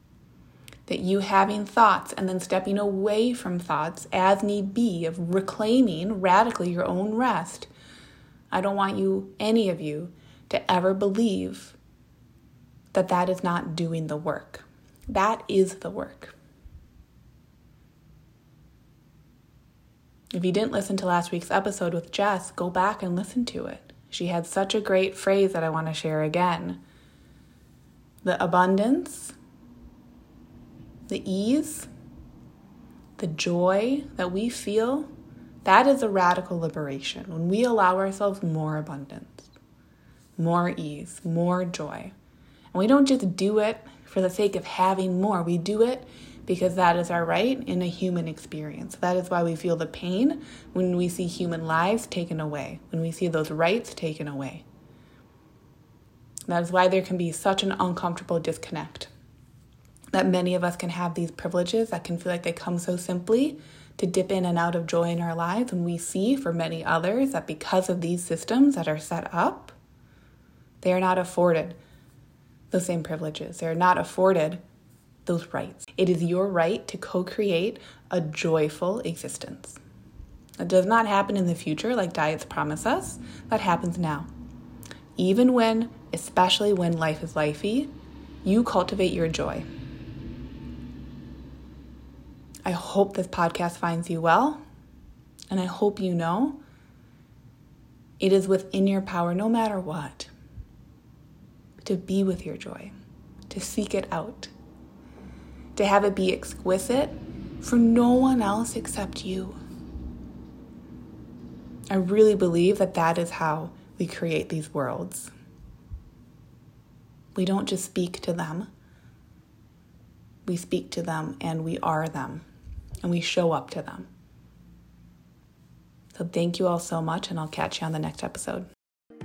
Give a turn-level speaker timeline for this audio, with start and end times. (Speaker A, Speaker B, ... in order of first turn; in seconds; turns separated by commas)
Speaker A: 0.9-7.7, Speaker A: 8.5-11.8, Speaker A: 12.9-16.3, Speaker A: 20.3-26.8, Speaker A: 28.2-29.3, Speaker A: 31.1-31.9, Speaker A: 33.2-35.1, Speaker A: 35.6-39.5, Speaker A: 40.4-42.1, Speaker A: 42.7-54.6, Speaker A: 56.5-59.1, Speaker A: 60.1-69.8, Speaker A: 70.8-71.8, Speaker A: 72.7-74.6, Speaker A: 75.2-79.8, Speaker A: 80.6-84.3, Speaker A: 85.2-87.9, Speaker A: 88.4-89.7, Speaker A: 92.6-94.6, Speaker A: 95.5-96.6, Speaker A: 98.2-100.3, Speaker A: 101.8-102.9, Speaker A: 103.5-104.5, Speaker A: 105.7-109.6, Speaker A: 111.9-115.3, Speaker A: 117.3-118.7, Speaker A: 120.5-122.4, Speaker A: 123.0-124.1, Speaker A: 126.1-128.7